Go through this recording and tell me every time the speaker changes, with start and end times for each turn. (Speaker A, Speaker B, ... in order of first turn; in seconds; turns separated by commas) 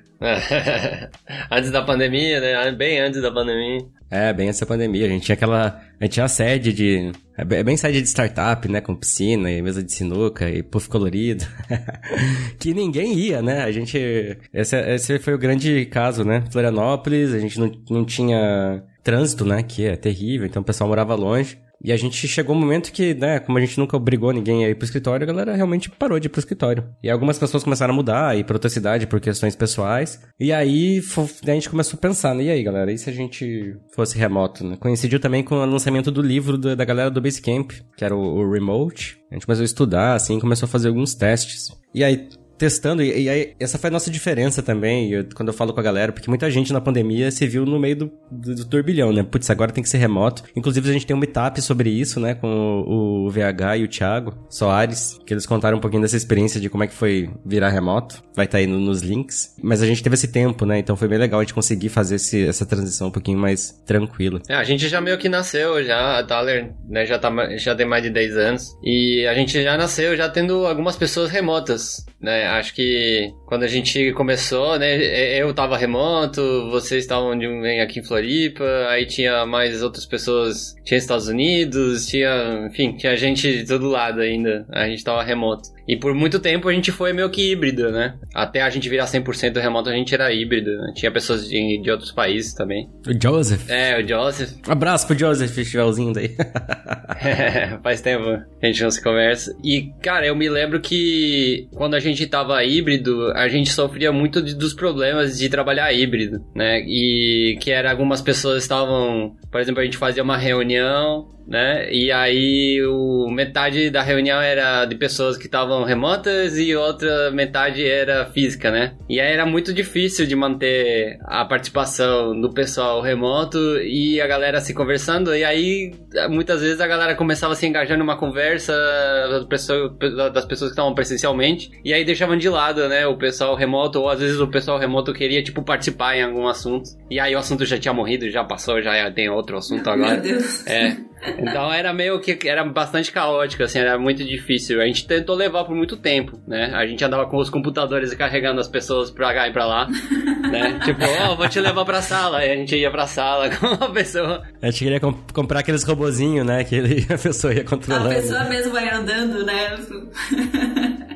Speaker A: 0.2-3.9, Speaker B: 4.1-64.5, Speaker A: 64.5-92.9, Speaker B: 93.1-93.7, Speaker A: 93.7-94.6, Speaker B: 94.7-97.2, Speaker A: 97.2-149.9, Speaker C: 139.7-141.4, Speaker C: 150.1-151.2, Speaker A: 150.5-154.4, Speaker B: 154.6-158.5, Speaker C: 157.9-161.1